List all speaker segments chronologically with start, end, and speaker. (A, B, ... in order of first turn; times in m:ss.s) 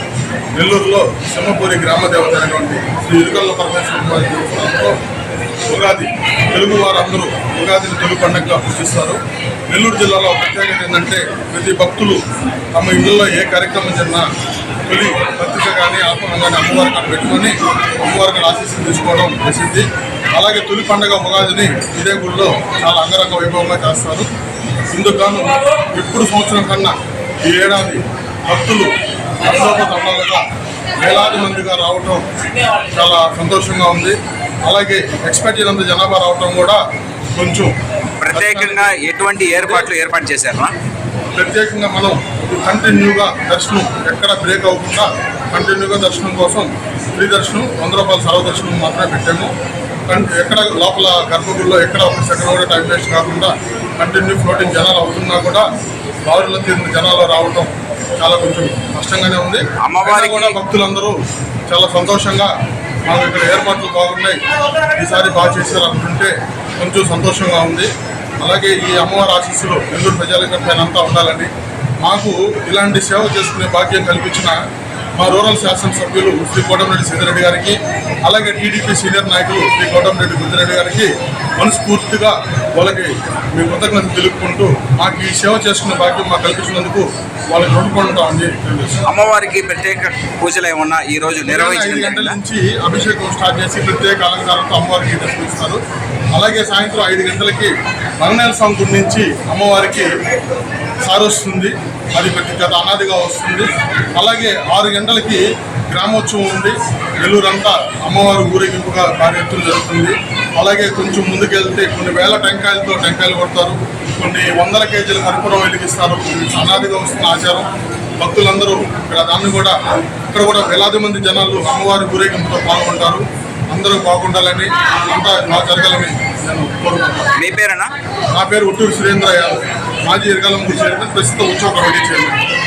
0:00.6-0:05.0 A
0:05.7-0:09.2 A
0:09.7-0:12.2 A
0:12.8-0:14.3 A
0:14.9-0:24.3 A
0:24.9-0:27.0 A
0:27.5-0:30.4 A
0:31.0-0:32.3 A
0:32.9-0:36.8 A
0:37.4-0:37.8 A
0:38.2-0:40.7 B
0:38.3-0:38.9 A
0:41.4-0:49.5 A
0:50.1-0:55.7 A
0:56.3-1:01.2 A
0:59.8-1:00.6 B
1:01.7-1:02.5 A
1:03.1-1:04.4 A
1:05.0-1:11.5 A
1:12.0-1:14.6 A
1:15.2-1:29.0 A
1:29.1-1:32.4 B
1:31.5-1:35.8 A
1:36.4-1:40.1 A
1:41.0-1:57.7 A
1:58.2-1:59.8 A
2:00.3-2:07.2 A
2:07.4-2:07.9 B
2:08.4-2:12.4 A